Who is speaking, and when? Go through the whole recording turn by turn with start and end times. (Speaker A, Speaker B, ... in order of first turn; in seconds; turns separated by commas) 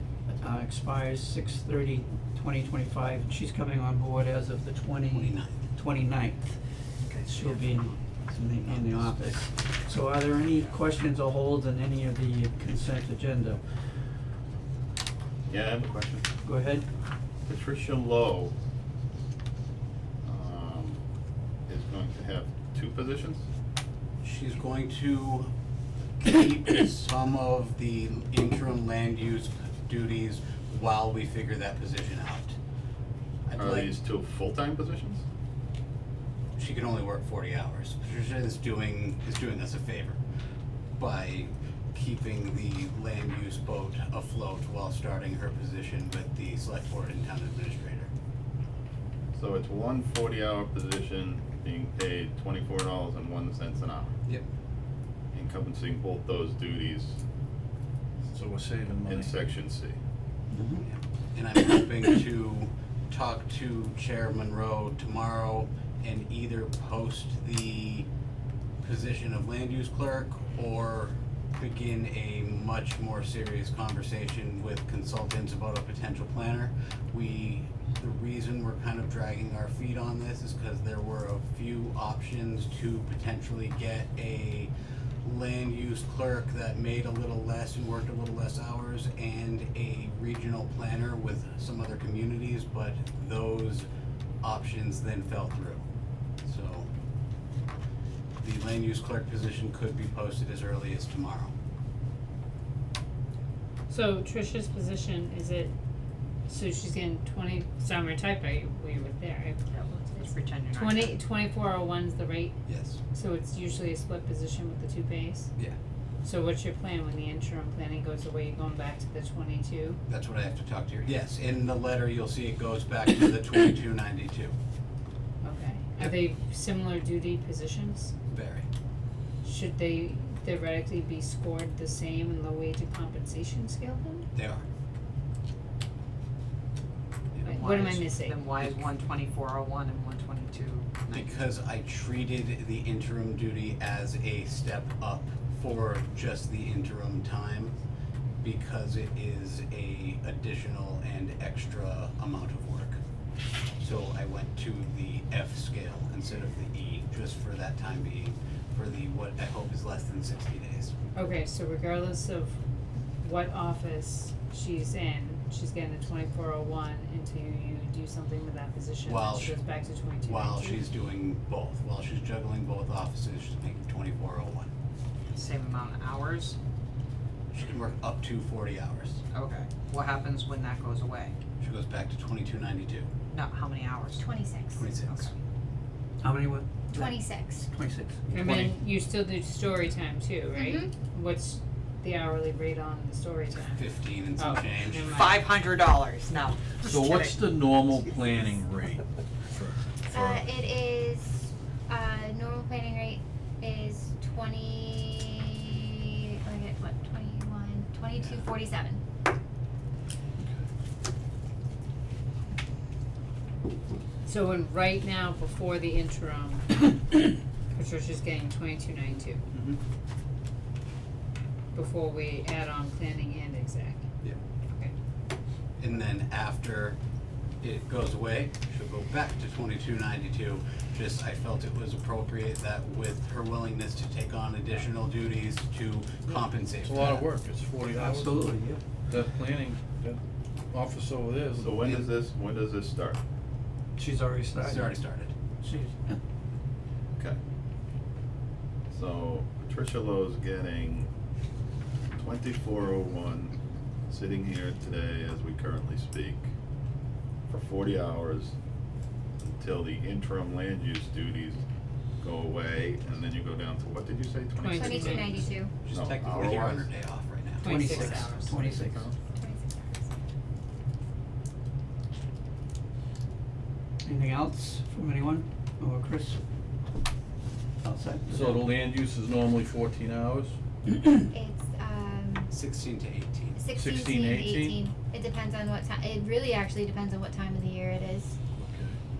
Speaker A: 0.4-6.6, Speaker B: 5.1-5.6, Speaker C: 7.1-7.6, Speaker A: 7.2-13.6, Speaker B: 8.5-9.4, Speaker D: 15.5-16.2, Speaker A: 16.4-16.8, Speaker D: 17.5-18.5, Speaker D: 20.2-21.0, Speaker D: 21.7-23.4, Speaker B: 24.2-25.5, Speaker B: 26.2-32.5, Speaker B: 33.5-33.9, Speaker D: 33.6-35.2, Speaker B: 36.5-40.2, Speaker B: 41.0-48.1, Speaker D: 49.3-54.1, Speaker D: 55.3-57.2, Speaker E: 58.2-59.4, Speaker D: 59.0-60.0, Speaker A: 60.5-60.8, Speaker B: 60.8-68.1, Speaker B: 68.8-84.7, Speaker B: 85.2-93.9, Speaker B: 94.4-95.8, Speaker B: 96.4-96.9, Speaker B: 98.4-101.5, Speaker F: 103.9-105.7, Speaker F: 106.5-112.6, Speaker C: 110.2-111.2, Speaker B: 112.7-113.0, Speaker F: 113.1-115.5, Speaker F: 116.2-120.0, Speaker B: 120.1-124.5, Speaker F: 125.4-128.1, Speaker B: 128.3-128.7, Speaker F: 129.4-134.3, Speaker B: 134.3-134.6, Speaker B: 137.3-138.0, Speaker F: 137.4-138.4, Speaker C: 137.5-141.4, Speaker B: 141.1-147.8, Speaker B: 148.4-153.0, Speaker B: 153.8-160.9, Speaker F: 161.1-162.6, Speaker F: 163.2-170.8, Speaker B: 169.0-169.6, Speaker B: 170.2-174.7, Speaker C: 175.3-176.6, Speaker B: 177.5-179.2, Speaker C: 179.3-181.3, Speaker B: 181.6-183.1, Speaker C: 183.3-184.2, Speaker G: 184.2-184.9, Speaker B: 184.7-185.3, Speaker C: 184.9-185.3, Speaker A: 186.2-188.7, Speaker G: 186.9-187.6, Speaker F: 188.3-195.4, Speaker E: 188.4-188.7, Speaker G: 190.5-190.9, Speaker B: 193.7-195.1, Speaker C: 195.1-197.4, Speaker E: 196.8-200.5, Speaker G: 200.1-209.0, Speaker F: 214.2-219.4, Speaker F: 221.7-224.1, Speaker B: 225.8-227.0, Speaker B: 227.6-237.1, Speaker E: 236.8-238.6, Speaker A: 237.9-238.8, Speaker E: 239.1-240.2, Speaker E: 240.7-242.0, Speaker D: 241.6-243.2, Speaker A: 243.9-245.0, Speaker B: 244.6-245.3, Speaker A: 245.6-246.2, Speaker D: 248.9-251.1, Speaker D: 252.1-253.5, Speaker D: 254.1-256.4, Speaker D: 257.5-258.5, Speaker D: 259.4-261.6, Speaker D: 262.2-266.8, Speaker F: 264.5-265.5, Speaker G: 264.7-265.7, Speaker B: 265.8-267.7, Speaker C: 265.9-266.8, Speaker F: 267.6-268.4, Speaker A: 267.6-269.0, Speaker C: 267.8-268.6, Speaker D: 268.2-269.1, Speaker G: 269.3-270.1, Speaker A: 274.0-276.4, Speaker A: 277.8-278.6, Speaker E: 278.3-280.6, Speaker G: 281.3-282.5, Speaker B: 282.5-283.6, Speaker G: 283.5-288.4, Speaker E: 283.7-284.8, Speaker E: 288.6-289.0